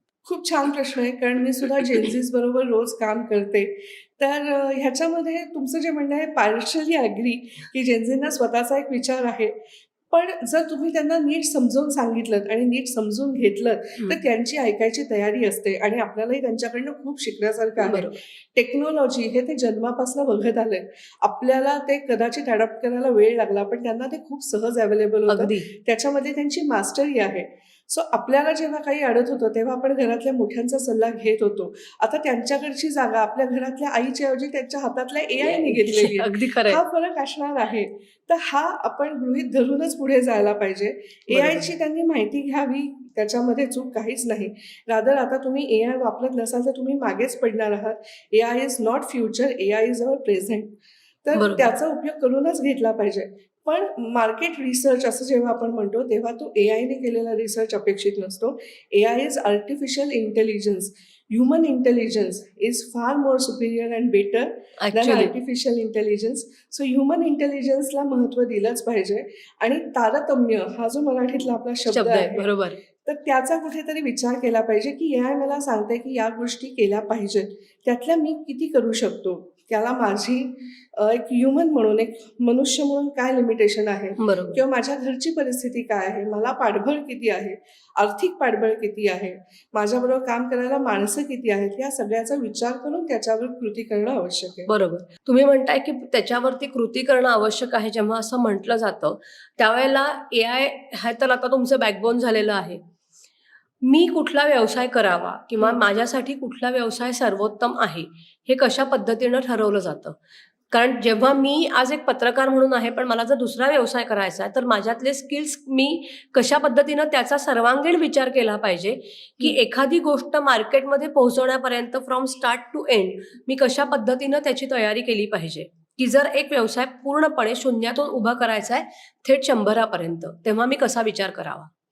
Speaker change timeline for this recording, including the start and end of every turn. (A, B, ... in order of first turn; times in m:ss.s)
0:00.3-0:09.6 A
0:10.1-0:50.7 A
0:17.8-0:18.2 B
0:25.3-0:25.7 B
0:35.4-0:36.8 B
0:41.3-0:41.7 B
0:51.2-1:12.5 A
0:51.3-0:51.7 B
1:04.8-1:05.3 B
1:11.9-1:12.8 B
1:13.0-1:34.7 A
1:24.2-1:24.6 B
1:34.7-1:42.8 B
1:43.8-1:50.2 B
1:50.7-2:11.7 B